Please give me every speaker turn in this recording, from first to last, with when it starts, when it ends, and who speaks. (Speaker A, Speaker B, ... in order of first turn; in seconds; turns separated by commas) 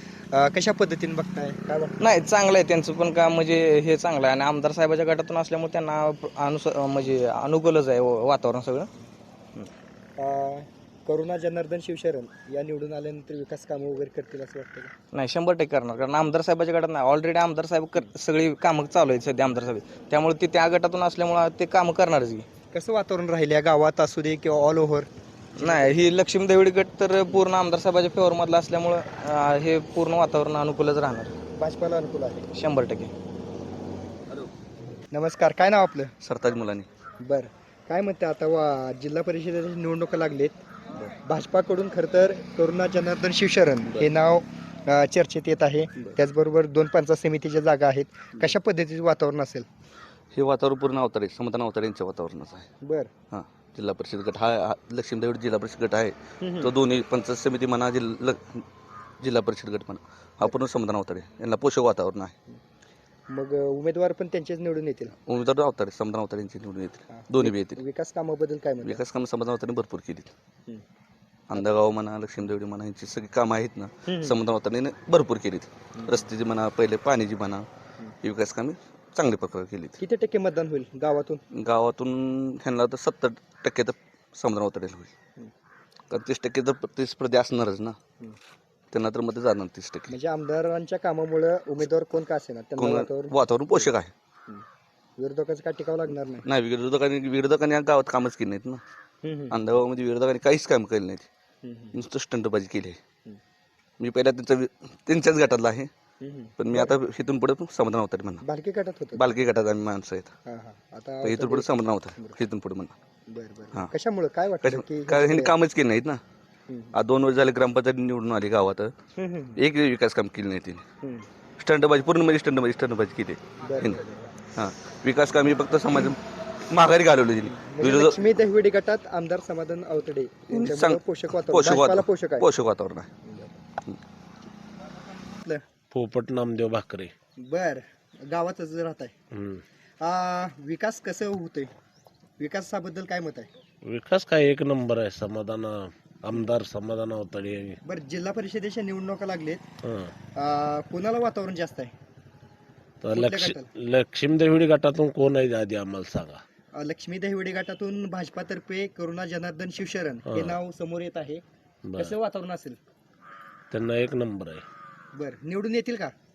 Speaker A: 0.3-1.9, Speaker B: 2.0-8.9, Speaker A: 10.2-14.9, Speaker B: 15.1-22.4, Speaker A: 22.7-25.1, Speaker B: 25.6-31.3, Speaker A: 25.6-26.0, Speaker A: 31.6-32.4, Speaker B: 32.5-33.1, Speaker A: 35.1-36.1, Speaker C: 36.2-36.9, Speaker A: 37.2-40.6, Speaker A: 41.2-49.6, Speaker C: 50.3-52.7, Speaker A: 52.8-53.1, Speaker C: 53.3-58.6, Speaker A: 56.4-56.7, Speaker C: 59.2-62.3, Speaker A: 63.3-65.1, Speaker C: 65.3-67.8, Speaker A: 67.1-69.0, Speaker C: 68.8-70.3, Speaker C: 71.5-77.7, Speaker A: 74.1-74.3, Speaker A: 76.0-76.3, Speaker C: 78.2-80.0, Speaker A: 80.0-81.4, Speaker C: 81.5-85.1, Speaker C: 86.1-88.0, Speaker C: 88.9-90.1, Speaker A: 90.1-93.9, Speaker C: 92.8-94.1, Speaker A: 95.2-96.4, Speaker C: 96.4-98.8, Speaker A: 99.2-99.5, Speaker C: 99.5-101.2, Speaker A: 101.6-102.0, Speaker C: 101.9-103.0, Speaker C: 104.0-105.9, Speaker A: 106.2-106.9, Speaker C: 106.6-108.4, Speaker A: 108.4-109.2, Speaker C: 109.1-110.3, Speaker A: 110.5-112.4, Speaker C: 111.2-112.9, Speaker A: 113.3-115.5, Speaker C: 114.6-116.2, Speaker A: 116.7-116.9, Speaker C: 116.9-118.9, Speaker A: 119.2-119.6, Speaker C: 119.6-120.8, Speaker C: 121.6-124.0, Speaker A: 123.6-124.1, Speaker C: 124.5-126.2, Speaker C: 126.7-128.2, Speaker A: 127.5-132.4, Speaker C: 130.5-133.1, Speaker A: 133.2-133.6, Speaker D: 135.9-137.1, Speaker A: 137.4-139.1, Speaker D: 139.3-139.6, Speaker A: 140.0-141.7, Speaker A: 142.4-143.5, Speaker D: 143.8-147.8, Speaker A: 147.8-149.6, Speaker D: 149.8-150.1, Speaker A: 150.4-151.9, Speaker D: 153.0-156.4, Speaker A: 153.1-153.7, Speaker A: 156.8-161.4, Speaker D: 160.3-160.5, Speaker D: 161.8-162.1, Speaker A: 162.0-162.8, Speaker D: 163.7-164.6, Speaker A: 165.1-166.1